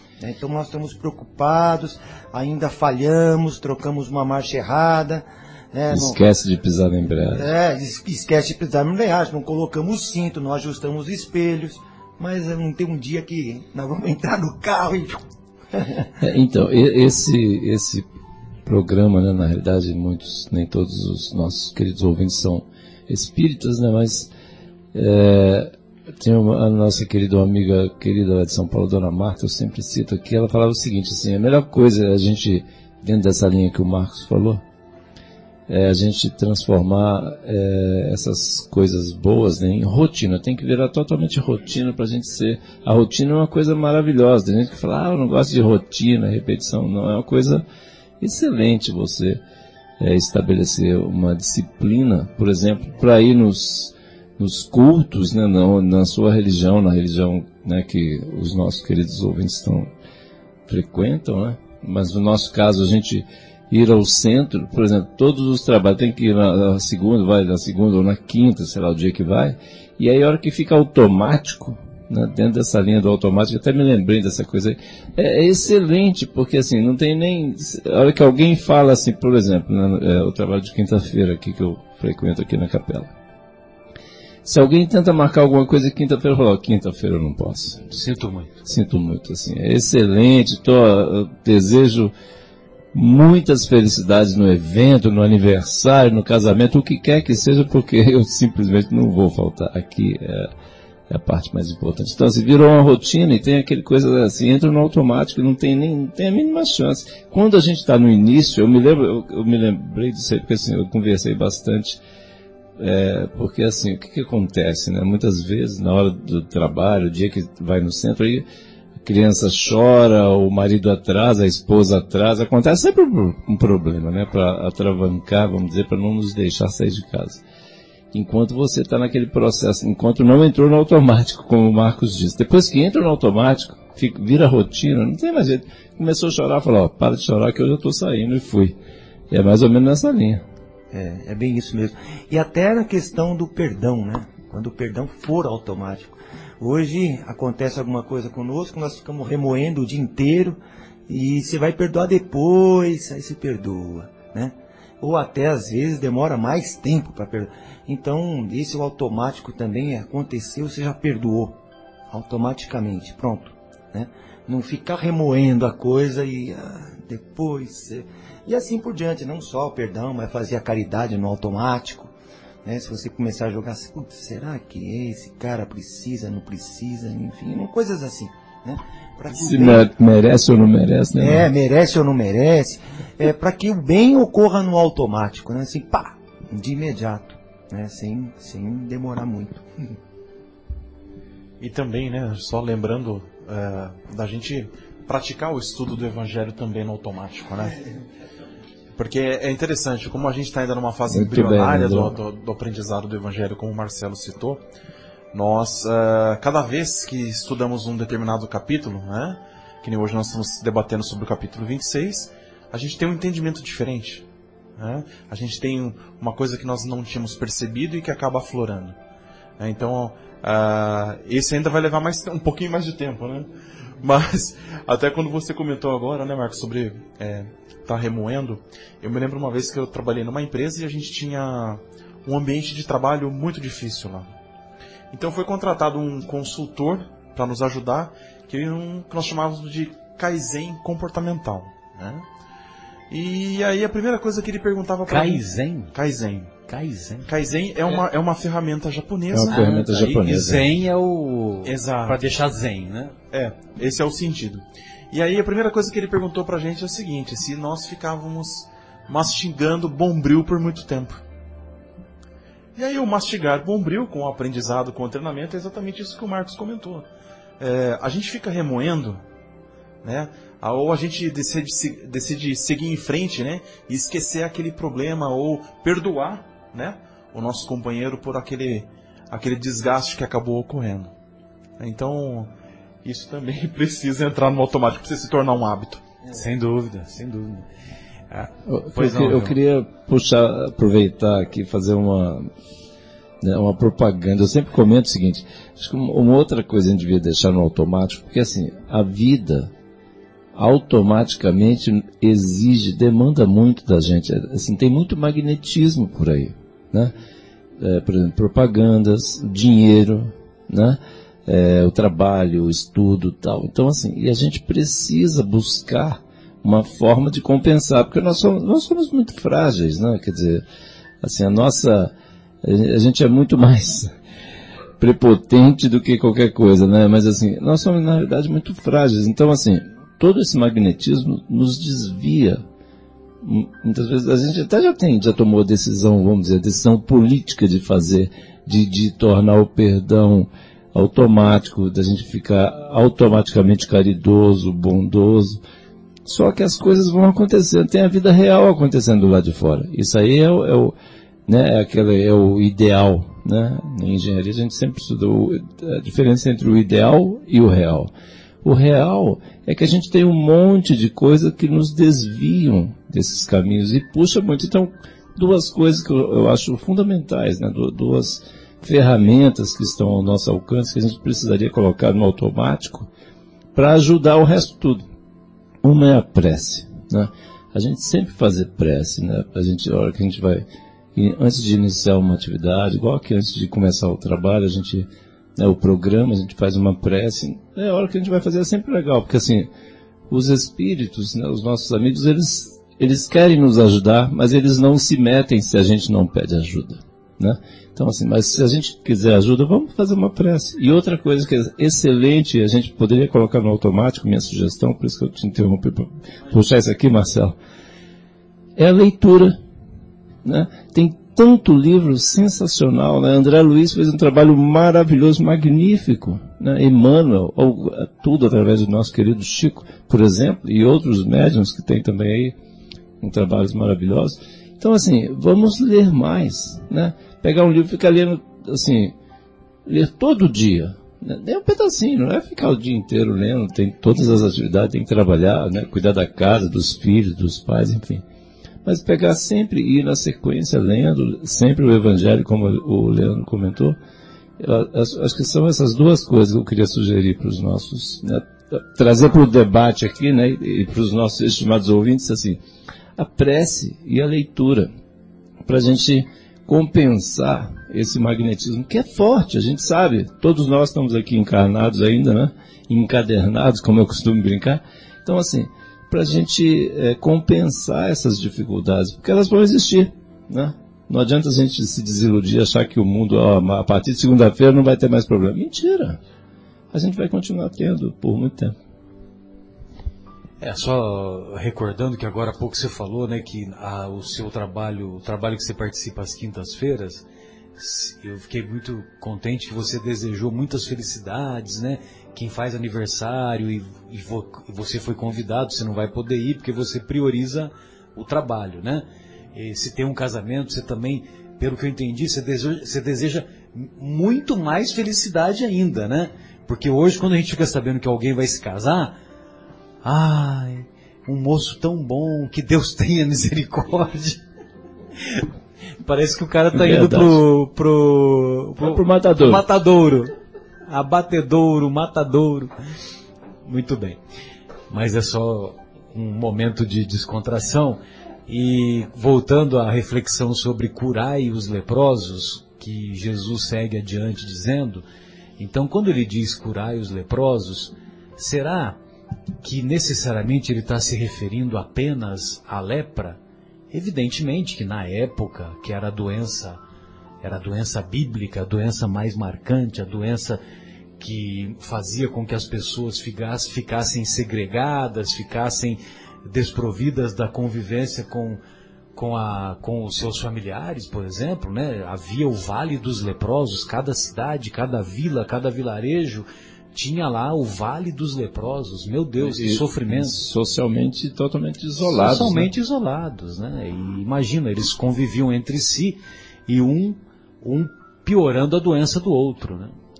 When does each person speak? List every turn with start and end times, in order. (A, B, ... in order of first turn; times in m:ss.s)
0:00.2-0:06.2 A
0:05.9-0:07.5 B
0:07.3-0:16.1 A
0:16.2-0:18.0 B
0:18.6-0:24.3 B
0:24.9-0:34.6 B
0:35.7-0:47.6 B
0:48.2-0:49.4 B
0:50.0-0:59.9 B
1:00.7-1:23.1 B
1:24.4-1:27.9 B
1:27.9-1:28.5 C
1:28.6-1:32.1 B
1:32.9-1:40.5 B
1:41.1-1:52.0 B
1:52.8-1:58.4 B
1:59.0-2:07.4 B
2:08.1-2:18.8 B
2:19.3-2:20.4 B
2:20.9-2:41.6 A
2:42.1-2:52.1 A
2:52.6-2:59.9 A
2:59.3-3:01.5 B
3:01.2-3:09.6 A
3:11.6-3:17.8 D
3:19.0-3:24.6 D
3:21.1-3:22.2 B
3:25.3-3:34.2 D
3:34.8-3:39.0 D
3:39.6-3:43.5 D
3:44.0-3:54.3 D
3:55.1-4:02.2 D
4:03.1-4:06.6 D
4:05.1-4:05.9 C
4:06.7-4:07.3 C
4:07.3-4:10.3 D
4:09.3-4:10.8 B
4:09.5-4:13.1 C
4:11.6-4:12.2 D
4:13.3-4:21.2 D
4:22.8-4:27.1 D
4:27.6-4:29.2 D
4:30.0-4:41.1 D
4:41.8-4:42.5 D
4:43.0-4:46.0 D
4:46.3-4:47.7 C
4:48.3-4:49.5 C
4:48.6-4:52.5 B
4:53.4-4:59.7 B
5:00.5-5:07.2 B
5:07.8-5:20.6 B
5:21.2-5:24.1 B
5:25.0-5:32.6 B
5:33.4-5:45.6 B
5:46.2-5:50.9 B
5:51.5-5:58.1 B
5:58.6-6:13.1 B
6:13.7-6:15.0 B
6:15.8-6:20.6 B
6:21.1-6:29.7 B
6:30.3-6:47.6 B
6:48.8-6:49.6 B
6:50.4-7:02.6 B
7:03.2-7:09.1 B
7:09.8-7:18.2 B
7:18.8-7:24.0 B
7:24.6-7:32.6 B
7:33.2-7:34.9 B
7:35.6-7:56.2 B
7:56.9-7:58.7 B
8:00.6-8:07.2 C
8:07.8-8:29.2 C
8:30.0-8:34.4 C
8:35.2-8:35.4 C
8:36.0-8:40.3 C
8:36.7-8:37.4 B
8:38.8-8:39.6 B
8:40.9-8:42.7 C
8:43.6-8:44.2 C
8:44.9-8:55.0 C
8:55.6-8:59.0 C
8:59.6-9:03.4 C
9:03.9-9:06.8 C
9:07.4-9:10.6 C
9:11.2-9:18.6 C
9:19.1-9:30.4 C
9:29.4-9:32.7 B
9:32.0-9:39.9 C